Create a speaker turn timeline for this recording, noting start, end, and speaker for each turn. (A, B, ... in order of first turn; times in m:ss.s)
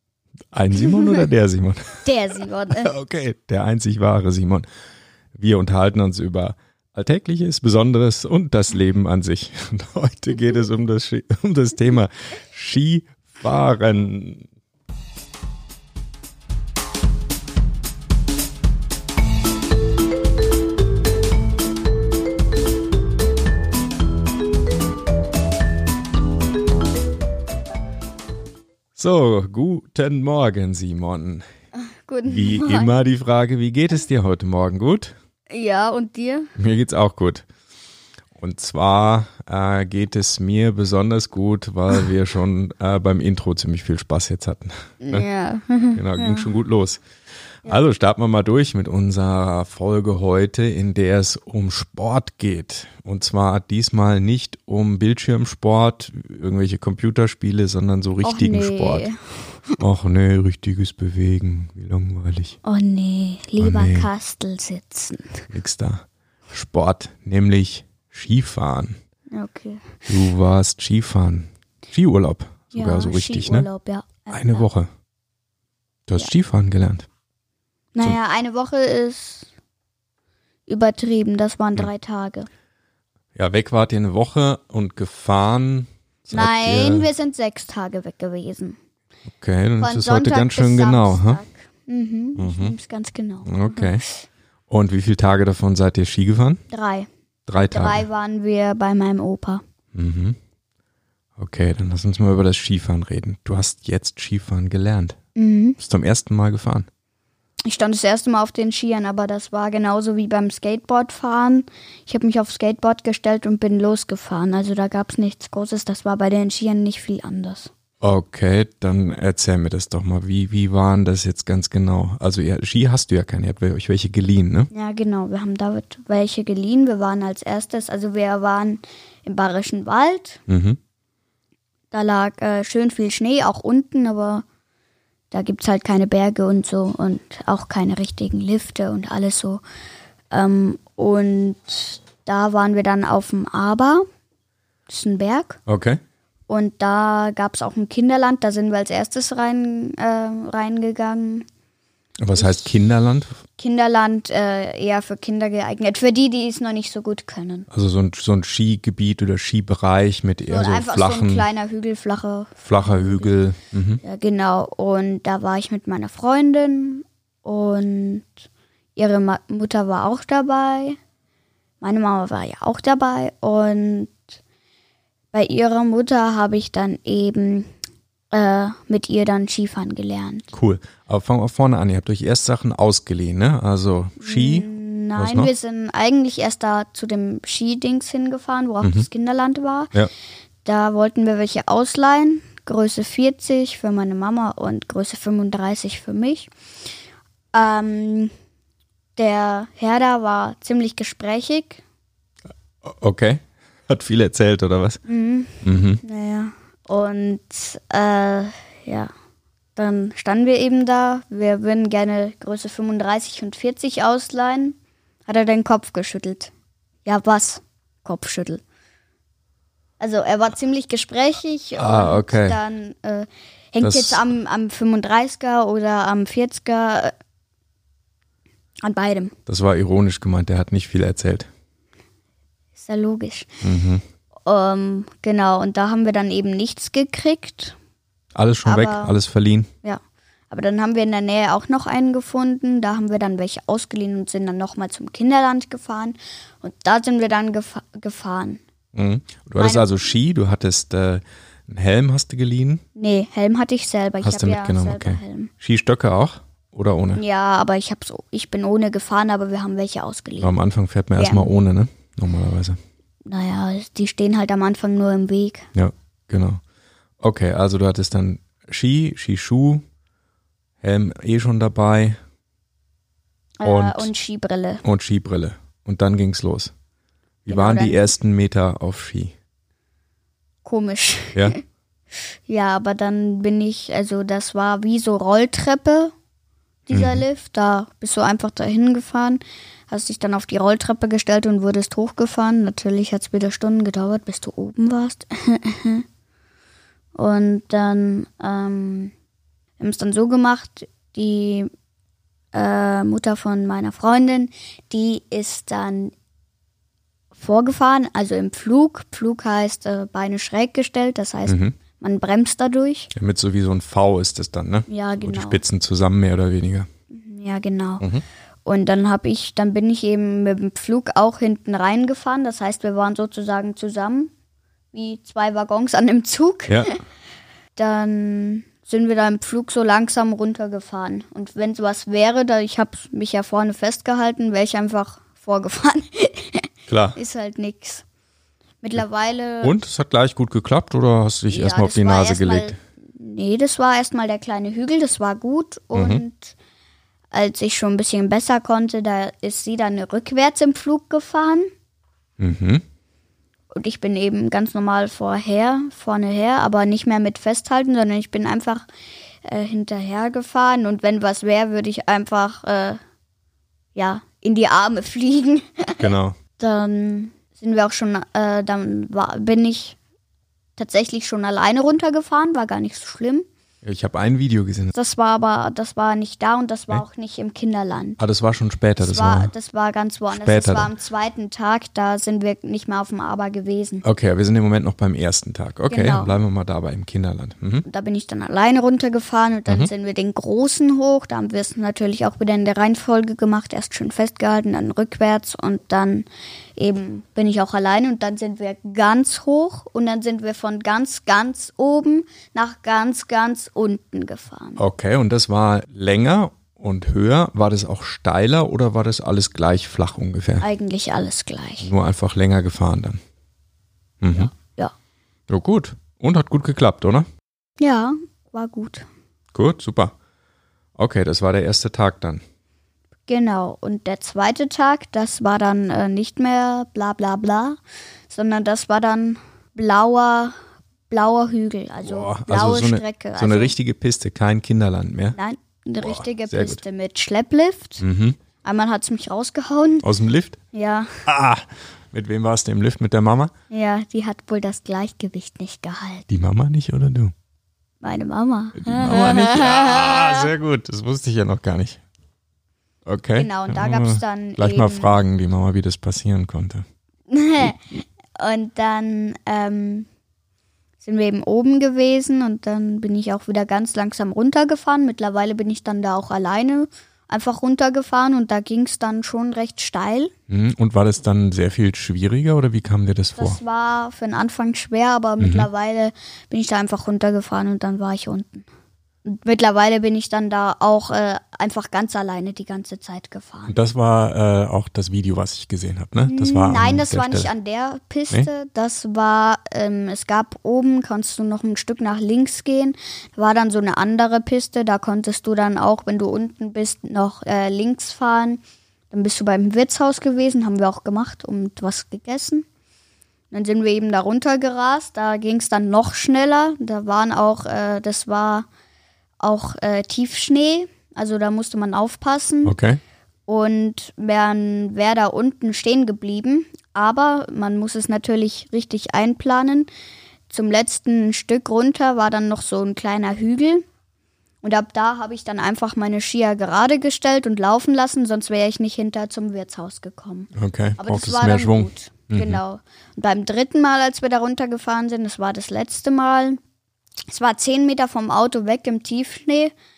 0:00.5-0:02.1 A
0:00.8-0:01.2 B
0:02.0-0:02.9 B
0:02.8-0:04.7 A
0:05.3-0:14.5 A
0:29.0-0:31.5 A
0:32.0-0:32.9 B
0:32.3-0:35.2 A
0:35.5-0:36.5 B
0:36.6-0:37.5 A
0:38.4-0:45.3 A
0:45.0-0:46.5 B
0:46.0-0:47.0 A
0:47.6-0:59.1 A
0:58.2-0:59.8 B
0:59.8-1:02.6 A
1:02.6-1:05.5 B
1:03.6-1:04.1 A
1:05.5-1:09.0 A
1:09.3-1:10.1 B
1:10.1-1:13.7 A
1:12.7-1:14.7 B
1:14.3-1:14.9 A
1:16.1-1:17.1 A
1:18.0-1:19.5 B
1:20.7-1:22.5 B
1:23.3-1:27.1 A
1:26.3-1:28.8 B
1:29.4-1:31.4 A
1:29.8-1:34.2 B
1:32.4-1:32.8 A
1:33.4-1:34.0 A
1:34.7-1:36.6 A
1:36.7-1:37.1 B
1:37.5-1:38.1 A
1:37.6-1:39.6 B
1:39.9-1:40.4 A
1:41.4-1:45.2 A
1:45.4-1:45.8 B
1:45.8-1:46.9 A
1:47.7-1:57.7 B
1:58.0-2:04.7 A
2:04.7-2:10.4 B
2:10.5-2:10.8 A
2:11.9-2:14.4 B
2:15.3-2:19.6 B
2:20.3-2:24.0 B
2:24.9-2:25.6 B
2:25.7-2:26.0 A
2:26.5-2:31.5 B
2:32.2-2:33.4 A
2:32.4-2:32.7 B
2:33.6-2:37.7 B
2:37.7-2:41.5 A
2:40.5-2:43.3 B
2:42.6-2:44.0 A
2:44.0-2:48.4 B
2:49.0-2:51.0 B
2:51.8-2:54.2 B
2:55.3-2:57.7 B
2:58.3-3:00.5 B
3:00.5-3:05.5 A
3:04.2-3:09.9 B
3:08.8-3:09.1 A
3:10.6-3:16.5 B
3:17.5-3:18.3 B
3:19.2-3:21.8 B
3:22.8-3:25.0 A
3:25.1-3:29.1 B
3:25.6-3:26.0 A
3:29.8-3:36.5 B
3:37.0-3:38.6 B
3:40.0-3:47.1 B
3:41.8-3:42.6 A
3:43.8-3:44.3 A
3:48.8-3:49.3 B
3:49.5-3:51.5 A
3:52.8-3:53.6 B
3:53.6-3:54.0 A
3:54.4-3:57.8 B
3:58.3-3:59.7 A
3:58.6-3:59.2 B
3:59.8-4:08.6 B
4:08.9-4:12.8 A
4:09.6-4:10.0 B
4:13.0-4:15.5 B
4:14.2-4:17.2 A
4:17.1-4:20.5 B
4:20.4-4:22.8 A
4:21.2-4:21.5 B
4:23.3-4:25.7 B
4:25.7-4:26.6 A
4:27.2-4:29.8 A
4:30.8-4:32.2 A
4:33.6-4:34.8 B
4:33.6-4:34.1 A
4:34.8-4:36.7 A
4:37.4-4:39.3 A
4:37.5-4:38.1 B
4:40.6-4:41.6 B
4:42.5-4:46.1 B
4:46.9-4:56.0 B
4:46.9-4:47.2 A
4:57.1-4:59.1 B
4:59.8-5:01.7 B
5:02.5-5:06.1 B
5:07.3-5:13.1 B
5:11.5-5:11.8 A
5:13.1-5:16.9 A
5:14.9-5:15.6 B
5:17.1-5:18.0 B
5:18.6-5:24.3 B
5:24.9-5:27.0 B
5:27.8-5:38.0 B
5:36.9-5:37.2 A
5:38.8-5:39.8 B
5:39.6-5:42.8 A
5:41.5-5:46.6 B
5:45.9-5:46.2 A
5:47.3-5:51.7 B
5:52.4-5:52.8 A
5:53.7-5:58.9 B
5:59.4-6:03.0 B
6:03.9-6:10.0 B
6:06.0-6:06.4 A
6:10.8-6:13.4 B
6:13.8-6:14.9 A
6:14.9-6:18.2 B
6:18.2-6:19.5 A
6:19.0-6:24.0 B
6:20.3-6:20.9 A
6:24.0-6:27.9 A
6:25.9-6:26.4 B
6:27.8-6:44.8 B
6:44.8-6:50.7 A
6:50.6-6:51.9 B
6:51.8-6:53.2 A
6:54.2-6:54.5 A
6:54.3-6:54.9 B
6:55.5-6:57.3 A
6:57.8-6:59.1 B
6:59.5-7:00.1 A
7:01.0-7:02.4 A
7:03.3-7:10.6 B
7:11.1-7:13.8 B
7:12.0-7:15.4 A
7:15.3-7:18.0 B
7:16.0-7:16.8 A
7:18.0-7:18.4 A
7:18.6-7:20.1 B
7:20.0-7:20.6 A
7:20.7-7:21.2 B
7:21.2-7:23.5 A
7:23.7-7:26.2 B
7:26.3-7:27.3 A
7:28.0-7:30.5 B
7:28.8-7:32.0 A
7:33.1-7:36.8 A
7:33.4-7:35.2 B
7:37.3-7:40.1 B
7:41.0-7:50.3 B
7:50.5-7:53.6 A
7:53.4-7:58.7 B
7:55.4-7:55.7 A
7:59.2-8:03.8 B
8:03.7-8:07.5 A
8:06.2-8:22.7 B
8:23.5-8:28.7 B
8:29.4-8:32.8 B
8:32.6-8:33.0 A
8:33.5-8:39.9 B
8:40.5-8:43.8 B
8:44.6-8:56.6 B
8:50.5-8:52.6 A
8:57.3-8:59.7 B